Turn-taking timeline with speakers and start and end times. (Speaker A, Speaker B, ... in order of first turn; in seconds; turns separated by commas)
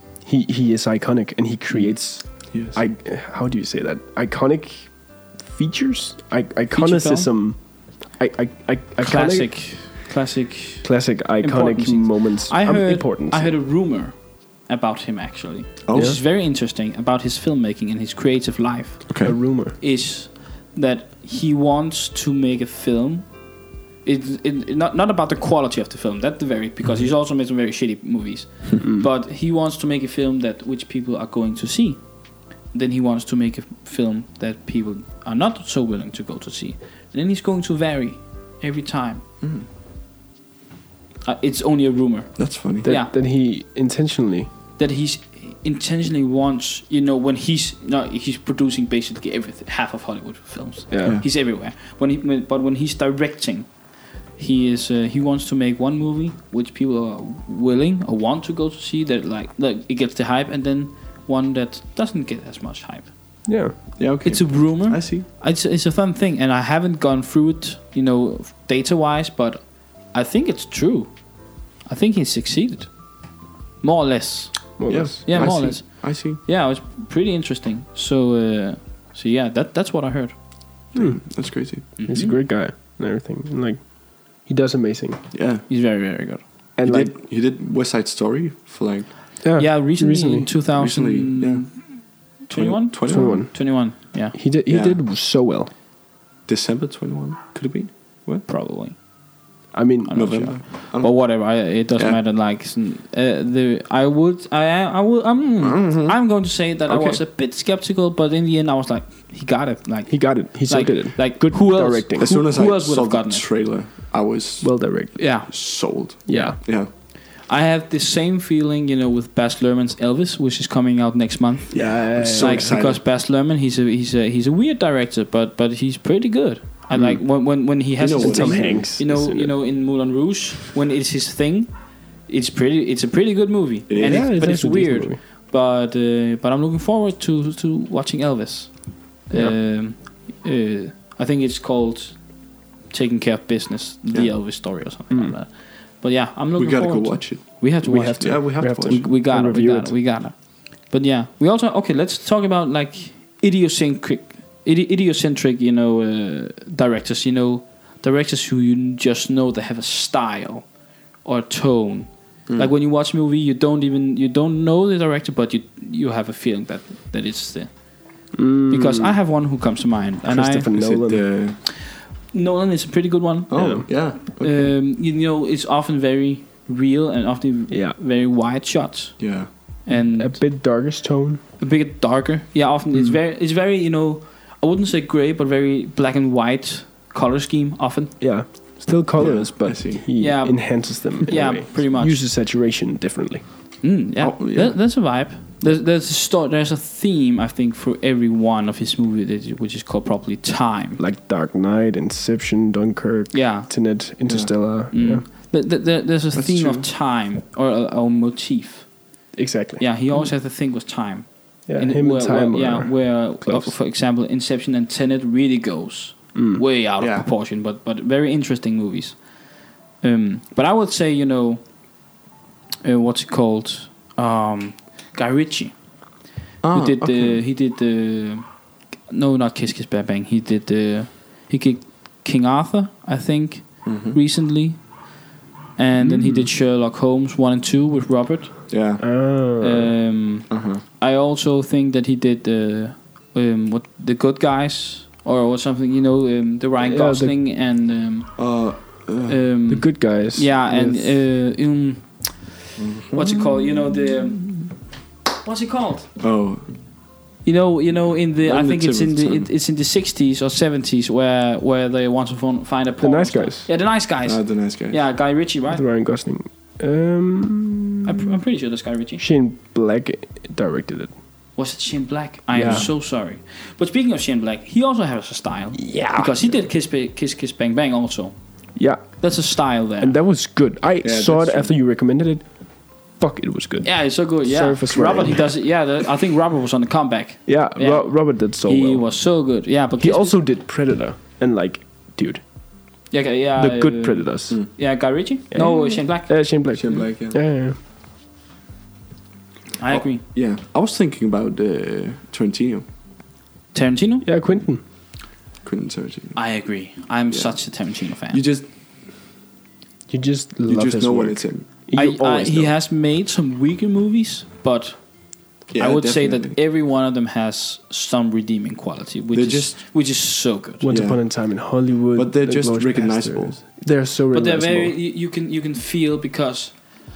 Speaker A: 0.2-7.6, Speaker B: 2.5-2.8, Speaker C: 6.7-7.3, Speaker A: 8.1-9.5, Speaker C: 9.0-10.9, Speaker A: 10.8-13.5, Speaker C: 11.4-23.3, Speaker B: 15.9-16.2, Speaker B: 19.1-19.3, Speaker A: 19.2-19.8, Speaker C: 24.0-32.0, Speaker C: 32.7-39.2, Speaker B: 39.4-39.7, Speaker C: 41.2-43.1, Speaker B: 42.4-42.9, Speaker A: 42.8-44.5, Speaker C: 44.8-53.7, Speaker A: 50.9-51.2, Speaker C: 54.4-63.1, Speaker A: 63.5-63.8, Speaker B: 64.0-65.2, Speaker C: 64.2-71.1, Speaker C: 71.8-72.9, Speaker C: 73.8-80.3, Speaker A: 74.8-75.8, Speaker B: 74.9-76.4, Speaker B: 80.9-81.9, Speaker A: 81.8-83.9, Speaker C: 82.0-82.4, Speaker A: 84.4-85.2, Speaker B: 85.3-85.7, Speaker C: 85.7-86.4, Speaker A: 86.8-87.1, Speaker B: 86.8-89.1, Speaker A: 89.4-90.5, Speaker C: 89.5-91.9, Speaker B: 90.7-91.8, Speaker C: 92.4-94.3, Speaker B: 92.5-93.4, Speaker A: 93.1-93.7, Speaker A: 94.3-95.7, Speaker B: 94.7-95.0, Speaker B: 96.5-98.4, Speaker C: 98.5-99.0, Speaker A: 99.7-100.2, Speaker C: 100.1-113.4, Speaker B: 100.1-102.2, Speaker B: 105.6-106.2, Speaker A: 106.9-107.2, Speaker A: 110.1-112.4, Speaker B: 112.2-116.9, Speaker A: 114.6-115.2, Speaker C: 115.2-115.5, Speaker A: 116.3-116.6, Speaker C: 117.4-131.7, Speaker B: 121.7-123.0, Speaker A: 121.7-122.8, Speaker B: 126.9-127.2, Speaker B: 128.0-128.9, Speaker A: 128.2-129.5, Speaker C: 132.3-142.4, Speaker B: 133.9-134.3, Speaker A: 134.0-135.2, Speaker C: 142.9-160.7, Speaker A: 145.1-145.3, Speaker B: 146.6-149.1, Speaker A: 147.8-149.9, Speaker C: 161.2-167.7, Speaker A: 168.3-169.2, Speaker C: 168.7-170.7, Speaker A: 170.2-171.2, Speaker B: 170.7-171.6, Speaker C: 171.8-180.4, Speaker B: 173.5-174.7, Speaker A: 173.5-173.8, Speaker A: 177.7-177.9, Speaker B: 179.2-179.5, Speaker A: 179.9-181.4, Speaker C: 181.6-188.1, Speaker A: 188.2-193.4, Speaker B: 189.2-190.1, Speaker C: 190.2-192.2, Speaker C: 193.8-201.0, Speaker B: 194.2-194.8, Speaker A: 201.0-205.2, Speaker C: 203.3-203.7, Speaker B: 204.3-204.5, Speaker C: 204.9-208.9, Speaker B: 206.3-206.9, Speaker A: 209.3-210.2, Speaker C: 209.8-219.2, Speaker A: 211.7-213.7, Speaker A: 216.3-216.6, Speaker B: 217.0-217.3, Speaker C: 220.0-221.6, Speaker C: 222.8-225.8, Speaker B: 226.6-227.4, Speaker C: 226.7-228.5, Speaker C: 229.1-234.8, Speaker B: 233.8-234.2, Speaker C: 235.8-238.7, Speaker B: 238.7-239.0, Speaker A: 239.0-239.9, Speaker C: 239.6-248.5, Speaker B: 240.5-240.8, Speaker A: 246.8-247.3, Speaker B: 248.4-249.4, Speaker C: 249.2-252.4, Speaker A: 249.7-251.2, Speaker B: 252.8-253.4, Speaker C: 253.1-254.6, Speaker C: 255.4-256.1, Speaker B: 256.2-256.7, Speaker C: 257.4-265.8, Speaker B: 258.4-259.5, Speaker A: 263.0-263.7, Speaker B: 264.2-265.0, Speaker A: 265.7-268.1, Speaker C: 268.0-269.2, Speaker A: 269.2-271.1, Speaker C: 271.6-278.3, Speaker A: 272.5-272.9, Speaker A: 275.8-276.5, Speaker A: 278.8-279.0, Speaker C: 279.2-280.1, Speaker A: 280.0-282.4, Speaker B: 281.0-281.7, Speaker A: 283.2-285.5, Speaker C: 283.8-290.4, Speaker A: 287.5-289.0, Speaker A: 290.0-292.4, Speaker C: 293.1-297.1, Speaker A: 293.6-294.6, Speaker A: 295.5-297.8, Speaker B: 296.7-297.4, Speaker C: 299.8-300.2, Speaker B: 299.9-302.9, Speaker C: 303.7-304.3, Speaker A: 304.2-304.8, Speaker B: 305.6-306.4, Speaker C: 306.3-308.4, Speaker B: 307.3-308.6, Speaker A: 310.1-312.7, Speaker B: 310.7-311.7, Speaker C: 311.9-315.1, Speaker B: 315.7-316.6, Speaker C: 315.8-320.9, Speaker B: 319.3-319.8, Speaker A: 320.8-324.9, Speaker B: 320.9-323.6, Speaker C: 324.3-326.8